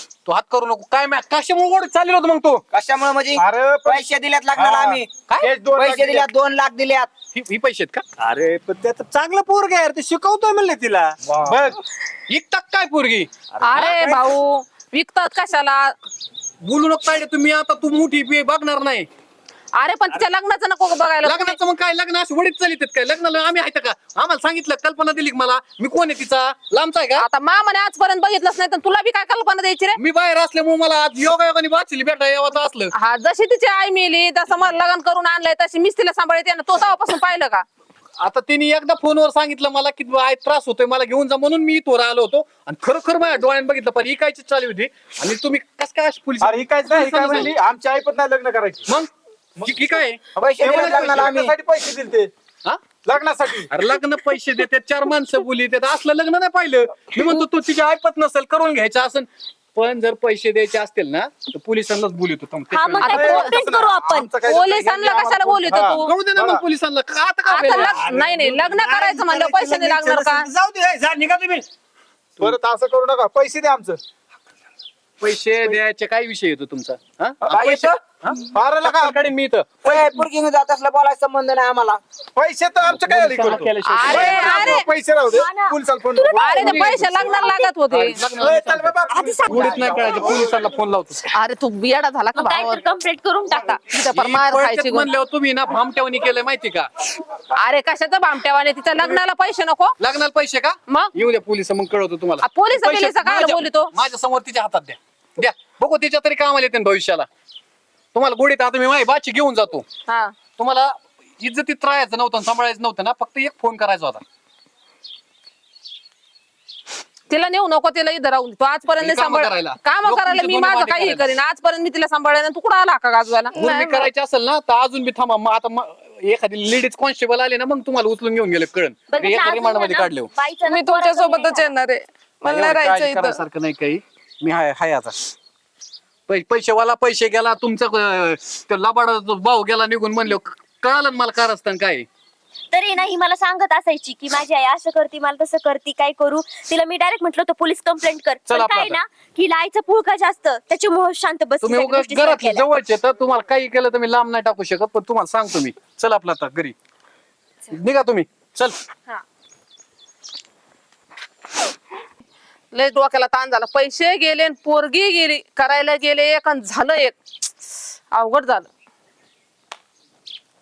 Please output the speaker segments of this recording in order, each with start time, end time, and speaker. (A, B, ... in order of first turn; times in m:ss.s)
0:00.2-0:02.6 A
0:02.7-0:05.1 B
0:03.4-0:06.3 C
0:05.7-0:07.1 B
0:07.3-0:08.0 A
0:08.2-0:11.2 D
0:11.3-0:11.8 C
0:12.3-0:14.2 A
0:13.6-0:14.0 D
0:13.6-0:15.9 E
0:16.6-0:19.1 A
0:19.7-0:21.6 E
0:21.2-0:27.2 A
0:27.2-0:30.0 E
0:30.0-0:32.9 A
0:32.9-0:37.6 E
0:38.2-0:47.5 A
0:46.4-0:48.9 C
0:48.9-0:50.2 A
0:50.4-0:51.5 B
0:50.6-0:52.3 C
0:50.7-0:51.2 A
0:53.0-0:53.7 C
0:53.7-1:03.3 A
1:02.7-1:04.3 F
1:03.0-1:03.5 E
1:03.0-1:06.6 C
1:04.4-1:06.1 E
1:06.0-1:08.5 A
1:07.4-1:10.5 E
1:07.7-1:11.6 D
1:12.4-1:14.0 C
1:15.2-1:19.9 A
1:17.5-1:18.0 B
1:18.4-1:19.2 C
1:19.8-1:22.0 B
1:19.9-1:20.2 C
1:22.4-1:27.2 C
1:22.8-1:24.7 A
1:23.9-1:24.8 E
1:24.1-1:27.7 F
1:26.4-1:28.2 E
1:26.4-1:27.3 A
1:27.9-1:31.3 A
1:28.2-1:30.7 C
1:29.1-1:29.8 E
1:31.3-1:32.8 E
1:32.3-1:33.7 F
1:33.5-1:35.1 E
1:34.1-1:36.9 A
1:37.5-1:39.9 E
1:40.0-1:47.3 A
1:42.4-1:43.9 E
1:48.1-1:49.8 A
1:50.1-1:50.3 E
1:50.6-1:54.2 A
1:57.3-2:03.6 E
1:59.0-2:01.3 A
2:03.5-2:10.3 A
2:03.6-2:04.0 G
2:09.1-2:11.7 F
2:10.6-2:13.4 G
2:12.4-2:15.2 A
2:16.3-2:22.1 A
2:22.7-2:32.6 F
2:28.4-2:29.0 A
2:31.6-2:36.7 A
2:37.7-2:38.8 A
2:42.7-2:47.2 E
2:48.1-2:48.7 E